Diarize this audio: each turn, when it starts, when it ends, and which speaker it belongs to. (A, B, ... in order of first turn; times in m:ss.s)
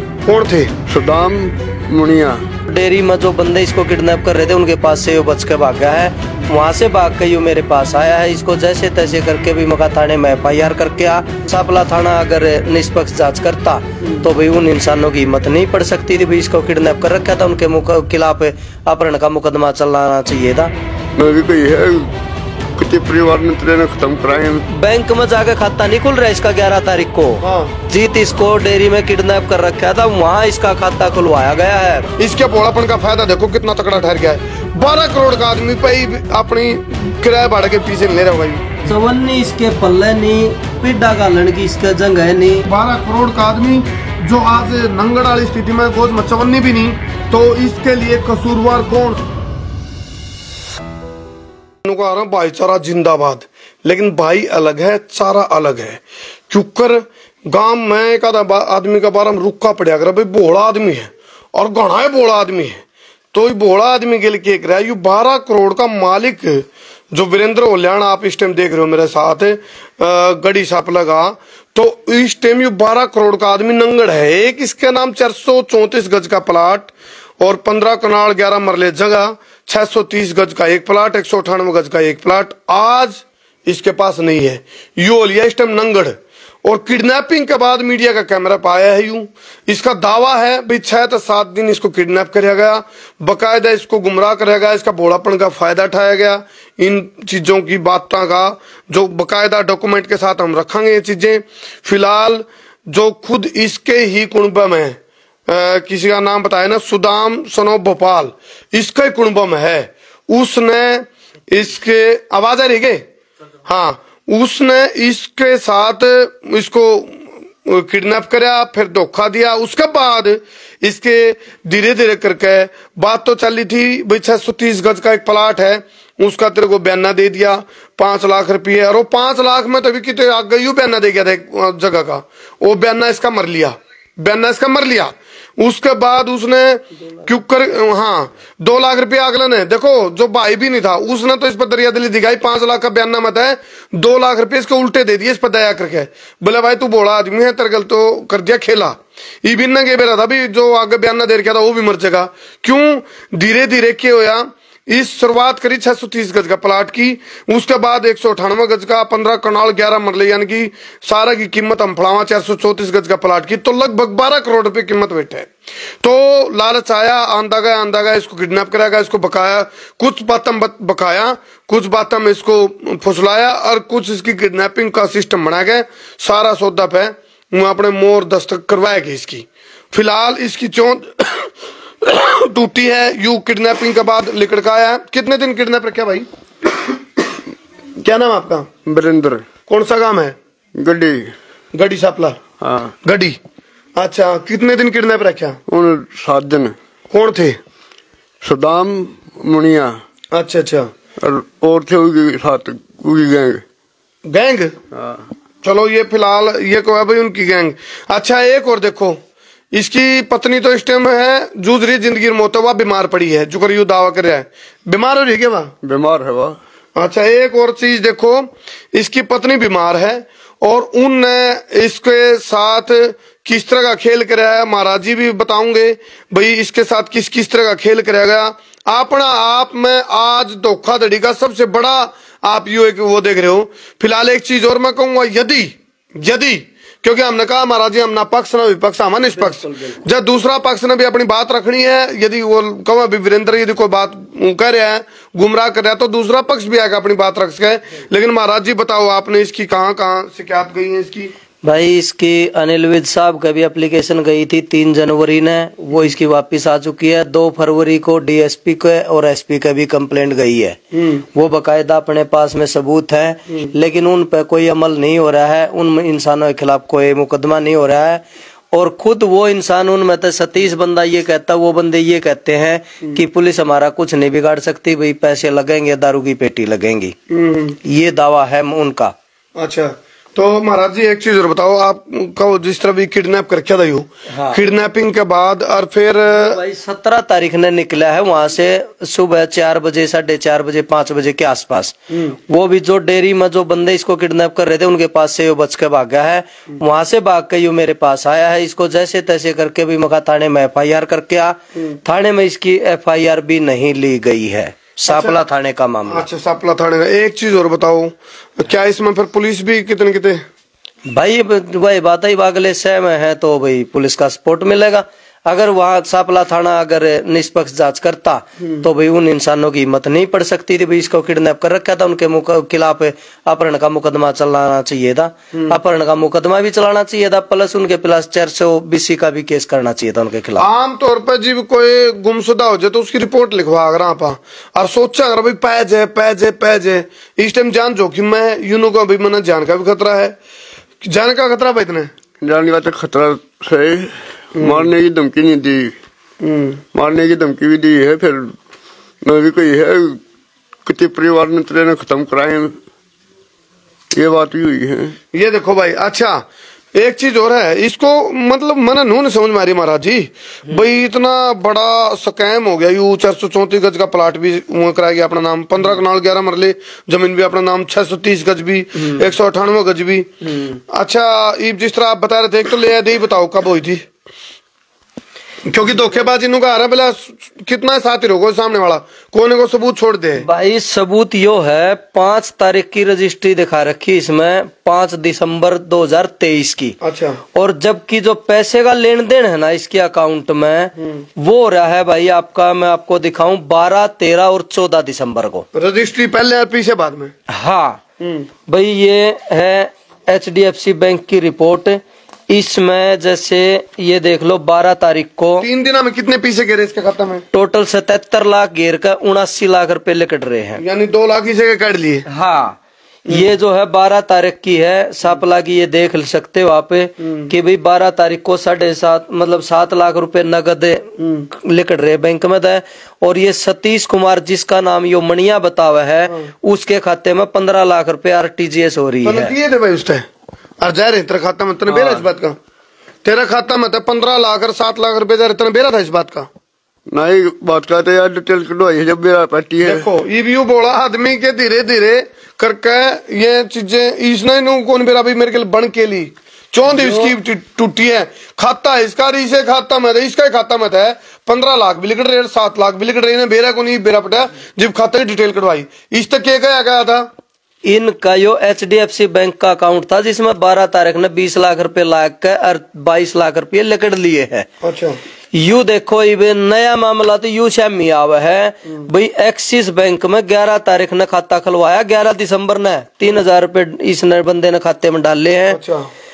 0:00.2-0:00.7 A
0:00.8-0:02.4 B
0:02.7-0:20.7 C
0:21.2-0:22.1 B
0:22.8-0:24.6 B
0:24.7-0:32.1 C
0:27.4-0:27.7 A
0:32.2-0:38.7 A
0:38.8-0:42.6 C
0:42.6-0:49.2 A
0:51.8-1:02.8 A
1:03.3-1:45.0 A
1:45.5-1:53.0 A
1:53.6-2:45.5 A
2:46.0-3:06.2 A
3:08.0-3:08.7 A
3:08.8-3:09.4 B
3:09.6-3:10.3 A
3:10.8-3:11.3 B
3:11.7-3:12.4 A
3:12.6-3:12.9 B
3:13.0-3:13.4 A
3:14.0-3:15.6 A
3:15.7-3:16.7 B
3:17.1-3:17.6 A
3:18.4-3:20.0 B
3:20.3-3:20.9 A
3:21.2-3:23.6 B
3:24.3-3:24.7 A
3:24.9-3:25.2 B
3:25.6-3:29.2 A
3:29.7-3:35.7 A
3:35.8-3:36.6 B
3:37.0-4:11.3 A
3:59.3-4:00.0 C
4:11.6-4:37.1 C
4:20.9-4:21.2 A
4:37.3-4:37.8 A
4:37.8-4:39.1 C
4:39.6-4:46.6 A
4:44.3-4:44.6 C
4:46.3-5:06.2 C
5:05.1-5:05.4 A
5:06.1-5:10.4 A
5:11.1-5:30.6 C
5:30.6-5:40.4 A
5:41.0-5:42.1 A
5:42.4-5:45.9 B
5:44.6-5:44.9 A
5:46.4-5:46.8 A
5:46.9-5:48.5 B
5:49.2-5:50.2 B
5:50.8-5:52.8 B
5:54.1-5:55.1 B
5:55.3-5:56.4 A
5:56.9-6:10.3 A
6:10.4-6:10.8 C
6:10.9-6:14.0 A
6:15.6-6:20.4 A
6:20.4-6:27.0 C
6:27.0-6:27.4 A
6:27.5-6:35.6 C
6:35.7-6:37.3 A
6:37.5-6:38.0 C
6:38.2-6:38.5 A
6:38.7-6:45.7 C
6:45.6-6:47.4 A
6:47.5-6:50.8 C
6:50.8-6:52.2 A
6:52.3-7:09.5 C
7:01.2-7:01.5 A
7:09.2-7:10.2 A
7:10.8-7:12.6 A
7:11.9-7:12.2 C
7:13.2-7:16.5 A
7:17.1-7:20.1 B
7:19.8-7:37.3 A
7:26.9-7:27.3 C
7:37.8-7:44.7 C
7:44.8-7:45.2 A
7:45.5-7:55.8 C
7:55.7-7:56.1 A